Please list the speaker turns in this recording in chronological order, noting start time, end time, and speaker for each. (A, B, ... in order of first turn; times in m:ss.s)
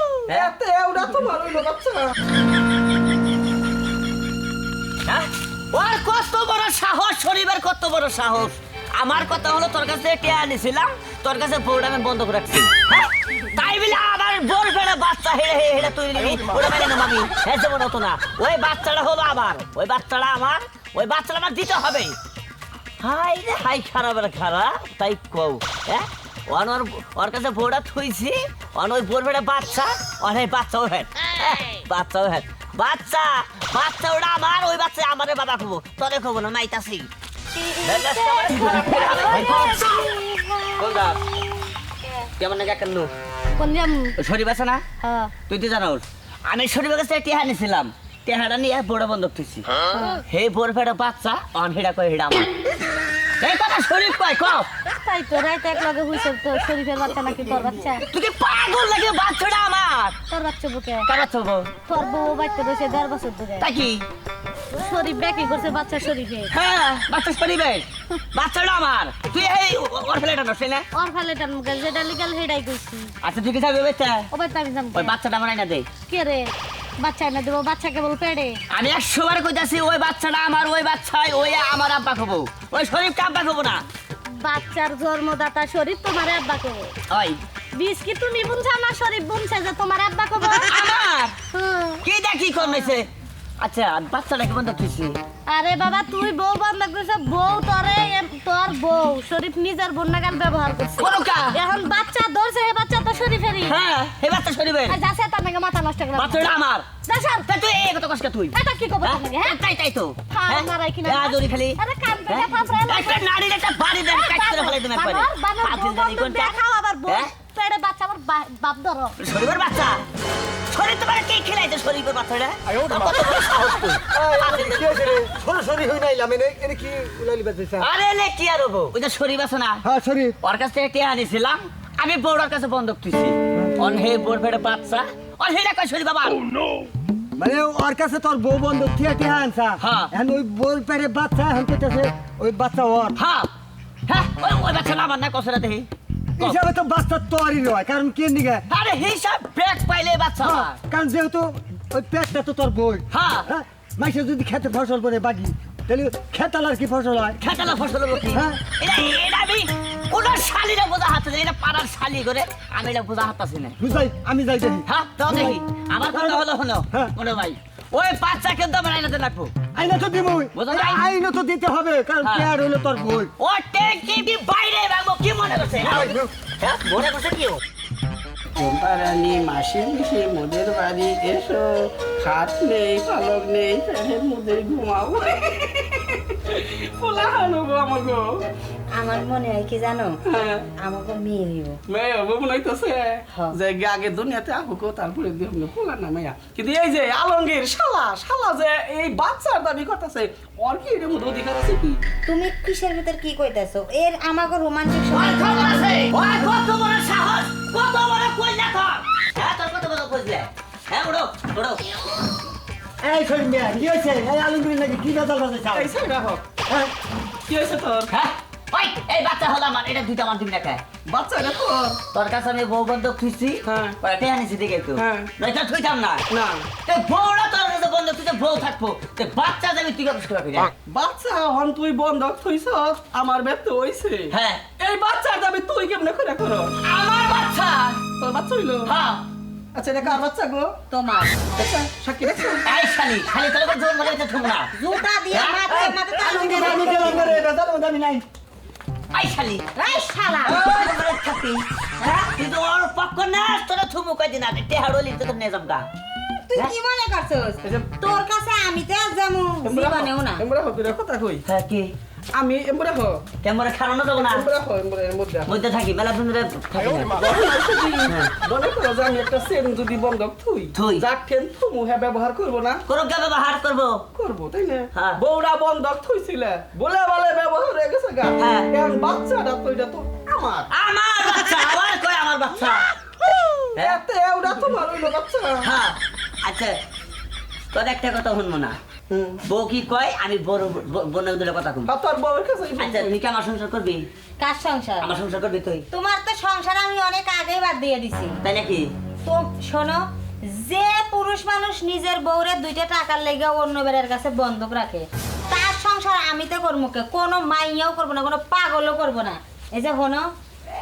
0:00.3-0:02.1 A
0:05.1-0:22.2 B
0:23.0-0:37.1 B
0:37.6-0:41.2 C
0:37.8-0:40.0 B
0:40.8-0:41.2 B
0:42.4-0:43.1 B
0:43.5-0:44.2 C
0:44.2-0:44.8 B
0:45.0-0:45.3 C
0:45.5-0:49.7 B
0:49.9-0:50.2 C
0:50.3-0:52.5 B
0:53.4-0:54.7 B
0:54.9-0:58.0 C
0:58.1-1:00.2 B
1:00.3-1:01.1 C
1:01.1-1:01.7 B
1:01.9-1:03.7 C
1:03.6-1:04.0 B
1:04.7-1:06.5 C
1:06.5-1:10.8 B
1:10.9-1:13.1 C
1:13.2-1:14.3 B
1:14.3-1:15.2 C
1:14.9-1:15.9 B
1:16.0-1:18.6 C
1:18.7-1:23.8 B
1:24.4-1:26.9 C
1:27.1-1:27.4 B
1:27.8-1:30.9 C
1:30.4-1:31.4 B
1:31.5-1:32.0 C
1:32.0-1:33.1 B
1:33.6-1:35.2 B
1:35.5-1:43.8 C
1:41.0-1:41.6 B
1:43.6-1:45.0 B
1:44.9-1:46.6 C
1:46.2-1:46.9 B
1:47.1-1:47.6 C
1:47.5-1:56.6 B
1:48.5-1:49.6 C
1:50.3-1:53.3 C
1:53.9-1:59.2 C
1:57.1-1:57.4 B
1:59.2-2:00.0 B
2:00.7-2:05.3 B
2:04.1-2:07.9 D
2:07.8-2:09.8 B
2:09.8-2:10.4 D
2:10.4-2:16.4 B
2:17.4-2:23.2 D
2:19.8-2:20.1 B
2:23.2-2:23.5 B
2:24.1-2:26.6 B
2:26.4-2:28.7 D
2:28.7-2:30.8 B
2:30.4-2:37.7 D
2:33.1-2:33.5 B
2:37.4-2:43.8 B
2:38.3-2:38.7 D
2:43.8-2:47.1 D
2:44.9-2:49.5 B
2:49.7-2:53.3 D
2:50.5-2:51.0 B
2:52.2-2:52.5 B
2:53.4-2:57.6 B
2:55.9-2:56.3 D
2:58.6-3:08.4 A
3:08.9-3:10.2 E
3:10.2-3:10.7 A
3:10.8-3:11.8 E
3:11.9-3:22.0 A
3:22.3-3:26.2 E
3:25.1-3:31.9 B
3:33.0-3:35.9 D
3:35.7-3:36.4 A
3:37.5-3:38.1 A
3:38.1-3:40.8 B
3:41.1-3:42.0 A
3:42.1-3:46.2 B
3:43.6-3:44.0 A
3:45.0-3:45.3 A
3:46.3-3:46.7 A
3:46.9-3:50.7 B
3:50.9-3:56.8 A
3:54.3-3:54.6 B
3:56.8-3:58.0 B
3:58.1-3:58.9 A
3:58.9-3:59.2 B
3:59.8-4:00.8 A
4:00.9-4:01.4 E
4:01.4-4:02.7 A
4:02.7-4:04.7 B
4:04.8-4:07.4 E
4:05.3-4:06.9 B
4:06.2-4:08.2 D
4:09.1-4:09.8 B
4:09.8-4:10.7 E
4:10.4-4:11.0 A
4:10.5-4:15.9 B
4:16.5-4:20.4 E
4:19.6-4:21.4 A
4:21.5-4:21.9 B
4:22.3-4:23.3 A
4:23.4-4:24.5 B
4:24.2-4:25.5 A
4:25.5-4:27.2 B
4:27.1-4:32.8 A
4:30.8-4:31.0 B
4:32.9-4:34.0 B
4:34.2-4:40.7 A
4:34.9-4:35.2 B
4:38.4-4:38.7 B
4:40.7-4:42.9 B
4:43.7-4:45.7 A
4:45.6-4:46.8 B
4:47.7-4:48.8 B
4:49.1-4:49.4 A
4:49.5-4:51.9 B
4:51.9-4:53.1 A
4:52.8-4:54.1 B
4:54.4-4:55.2 E
4:55.0-4:55.9 B
4:55.9-4:58.4 E
4:58.4-4:58.9 B
4:59.3-5:10.3 E